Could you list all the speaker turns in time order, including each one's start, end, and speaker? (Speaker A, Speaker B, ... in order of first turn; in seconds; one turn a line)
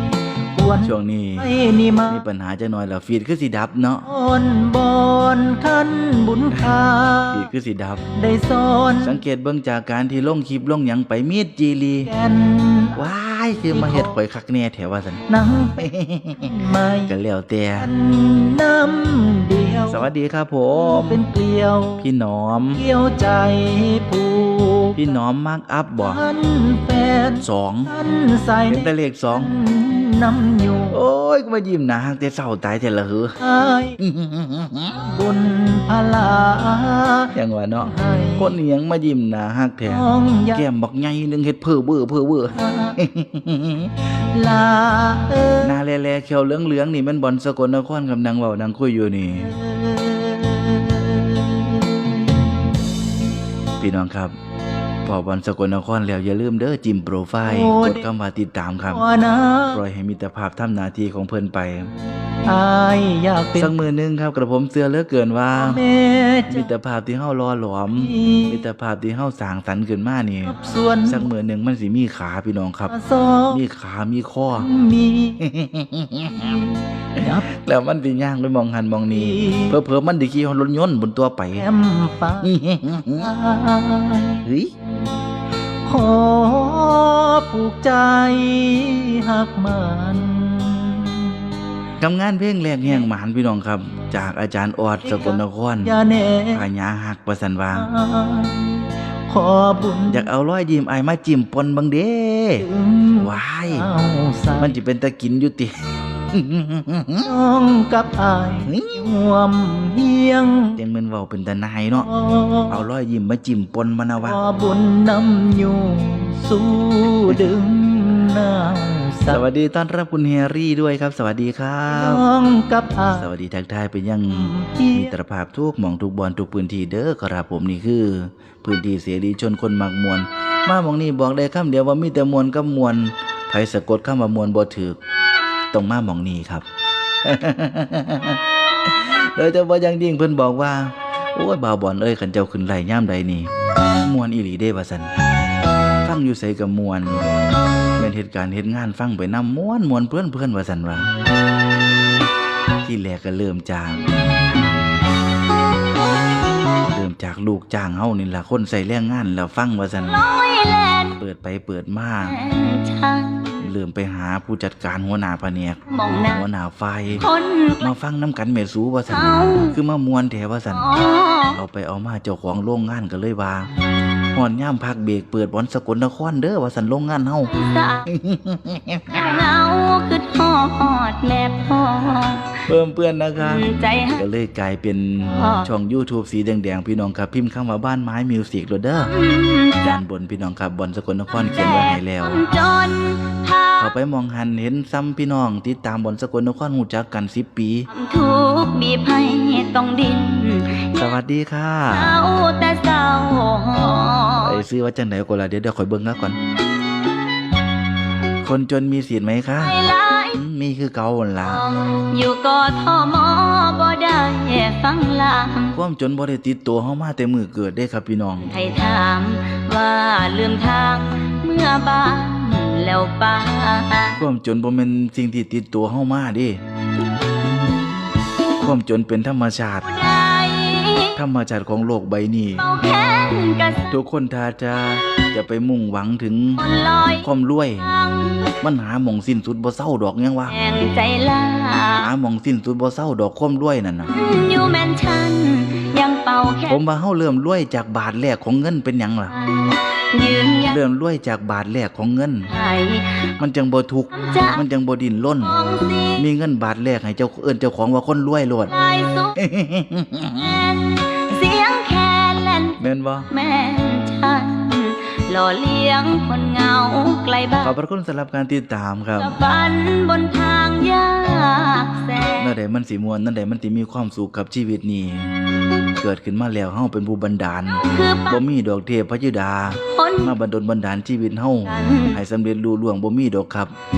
Speaker A: 0.6-2.2
Speaker B: 0.8-1.5
Speaker B: 2.1-4.1
Speaker A: 4.0-7.5
Speaker B: 7.3-8.1
Speaker A: 8.2-9.2
Speaker B: 9.0-12.1
Speaker A: 12.1-14.2
Speaker B: 13.0-15.2
Speaker A: 15.3-17.1
Speaker B: 15.8-17.9
Speaker A: 17.8-20.1
Speaker B: 19.9-21.2
Speaker A: 20.7-22.1
Speaker B: 22.0-22.8
Speaker A: 22.7-25.1
Speaker B: 24.9-26.2
Speaker A: 26.0-31.0
Speaker B: 27.4-27.9
Speaker B: 28.7-29.5
Speaker B: 30.9-33.4
Speaker A: 33.4-34.0
Speaker B: 34.0-35.0
Speaker A: 35.0-38.6
Speaker B: 37.3-43.9
Speaker A: 39.9-40.6
Speaker A: 42.5-43.0
Speaker A: 44.3-45.8
Speaker B: 45.6-49.5
Speaker A: 49.5-52.2
Speaker B: 53.8-54.4
Speaker B: 55.0-59.0
Speaker A: 57.4-58.1
Speaker A: 58.9-59.8
Speaker B: 59.7-61.9
Speaker A: 62.5-63.7
Speaker B: 63.6-65.8
Speaker A: 65.5-66.7
Speaker B: 66.5-70.6
Speaker A: 68.0-68.6
Speaker A: 70.4-71.3
Speaker B: 71.1-72.9
Speaker A: 72.9-73.6
Speaker B: 73.5-74.7
Speaker A: 74.5-75.5
Speaker B: 75.4-76.6
Speaker A: 76.3-77.5
Speaker B: 77.2-81.7
Speaker A: 79.1-79.8
Speaker A: 81.6-82.5
Speaker B: 82.4-83.3
Speaker A: 83.2-84.5
Speaker B: 84.4-84.7
Speaker A: 85.8-91.5
Speaker B: 92.0-96.0
Speaker A: 95.0-96.7
Speaker B: 96.5-97.9
Speaker A: 97.7-100.3
Speaker B: 100.1-103.9
Speaker A: 102.6-104.8
Speaker B: 104.6-107.3
Speaker A: 107.2-110.8
Speaker B: 108.7-109.1
Speaker B: 110.8-112.1
Speaker A: 112.0-112.8
Speaker B: 112.7-114.4
Speaker A: 114.2-119.4
Speaker B: 119.3-122.2
Speaker A: 121.9-123.3
Speaker B: 123.2-135.0
Speaker A: 124.3-125.1
Speaker B: 135.7-136.7
Speaker B: 137.2-143.5
Speaker B: 144.0-145.1
Speaker B: 146.0-147.3
Speaker B: 148.0-151.1
Speaker B: 152.8-154.1
Speaker B: 156.9-160.2
Speaker C: 160.0-161.2
Speaker B: 161.2-162.4
Speaker C: 162.2-163.7
Speaker B: 163.6-167.3
Speaker C: 165.9-166.5
Speaker C: 167.2-167.9
Speaker B: 167.8-170.9
Speaker C: 169.1-169.8
Speaker C: 170.7-171.6
Speaker B: 171.5-173.7
Speaker B: 174.3-179.3
Speaker C: 177.5-178.1
Speaker C: 179.1-182.6
Speaker B: 182.6-189.2
Speaker C: 183.4-184.2
Speaker C: 185.3-185.7
Speaker C: 189.1-190.0
Speaker B: 189.8-192.4
Speaker C: 191.3-193.9
Speaker B: 193.8-197.9
Speaker C: 197.9-201.2
Speaker B: 200.9-202.2
Speaker C: 201.9-204.6
Speaker B: 204.4-206.4
Speaker B: 208.4-209.8
Speaker C: 209.6-210.4
Speaker B: 210.3-211.6
Speaker C: 211.4-215.8
Speaker B: 215.7-218.5
Speaker C: 218.5-224.2
Speaker B: 224.2-226.6
Speaker B: 228.6-229.9
Speaker C: 229.8-231.2
Speaker B: 231.2-232.7
Speaker C: 232.6-233.9
Speaker B: 233.9-236.6
Speaker C: 236.6-237.3
Speaker B: 237.2-237.9
Speaker C: 237.8-238.5
Speaker B: 238.6-240.6
Speaker C: 240.5-242.1
Speaker B: 242.0-244.1
Speaker C: 244.1-246.8
Speaker B: 246.7-249.3
Speaker C: 249.3-250.8
Speaker B: 250.7-252.5
Speaker C: 252.5-253.4
Speaker B: 253.4-255.6
Speaker C: 254.1-254.6
Speaker C: 255.4-256.2
Speaker B: 256.1-258.7
Speaker C: 258.7-259.4
Speaker B: 259.4-260.5
Speaker C: 260.4-267.8
Speaker B: 262.8-263.3
Speaker B: 267.6-269.4
Speaker C: 269.2-272.5
Speaker B: 272.4-275.3
Speaker B: 276.0-283.7
Speaker C: 277.8-278.4
Speaker C: 279.9-280.3
Speaker C: 281.7-282.2